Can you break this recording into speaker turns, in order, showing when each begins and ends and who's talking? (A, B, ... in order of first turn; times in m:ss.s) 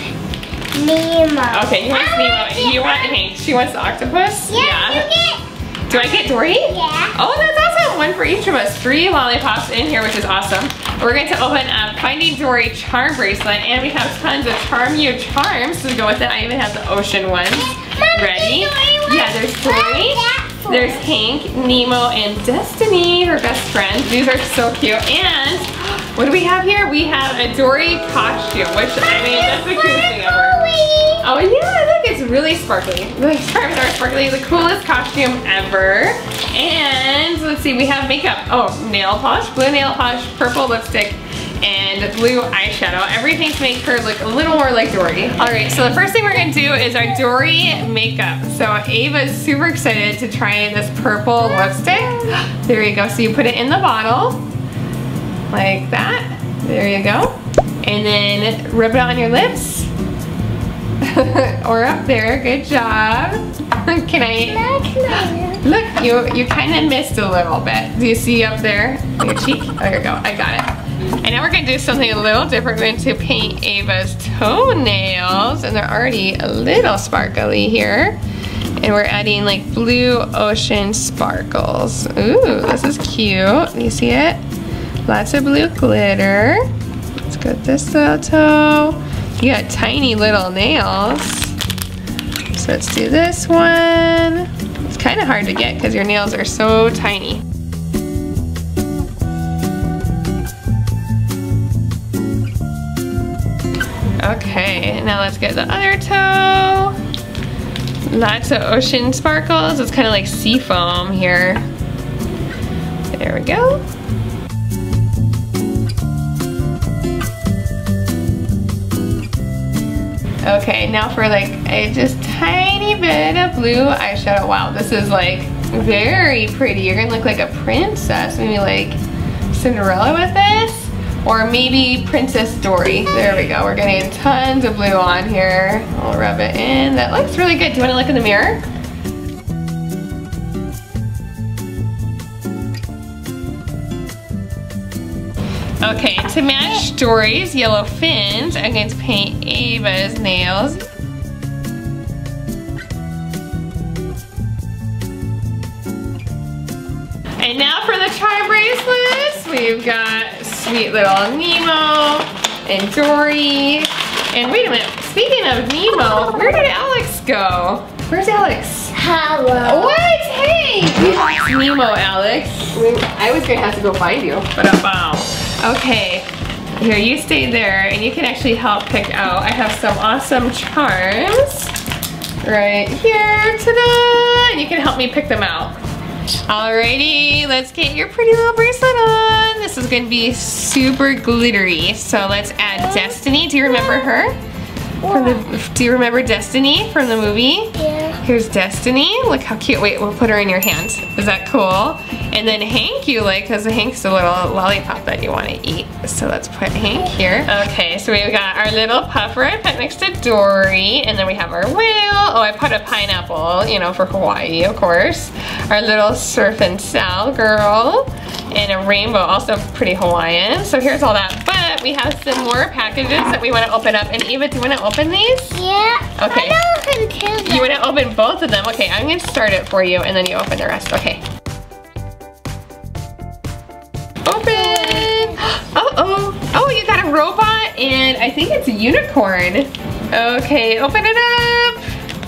0:00.7-0:03.1 A
0:01.5-0:05.1 B
0:04.5-0:07.1 A
0:05.9-0:30.6 B
0:17.5-0:21.0 A
0:29.0-0:31.2 A
0:31.2-0:54.4 B
0:51.4-0:52.4 A
0:55.5-0:59.9 B
1:01.0-1:18.2 B
1:04.4-1:05.6 A
1:18.8-1:24.4 B
1:25.1-1:26.7 B
1:27.2-1:31.6 B
1:32.5-1:37.4 B
1:44.2-1:47.0 B
1:48.1-1:51.6 B
1:53.1-1:53.8 B
2:00.4-2:09.0 B
2:09.5-2:18.6 B
2:25.8-2:30.9 B
2:37.4-2:48.9 B
2:48.9-2:50.1 A
2:49.6-2:56.3 B
2:56.8-3:01.7 B
3:02.4-3:05.8 B
3:06.5-3:14.4 B
3:12.8-3:14.2 A
3:15.0-3:15.4 A
3:15.1-3:45.6 B
3:17.8-3:18.2 A
3:45.5-3:47.8 A
3:46.2-3:46.6 B
3:47.4-3:51.2 B
3:54.2-4:01.8 B
3:54.5-3:55.4 A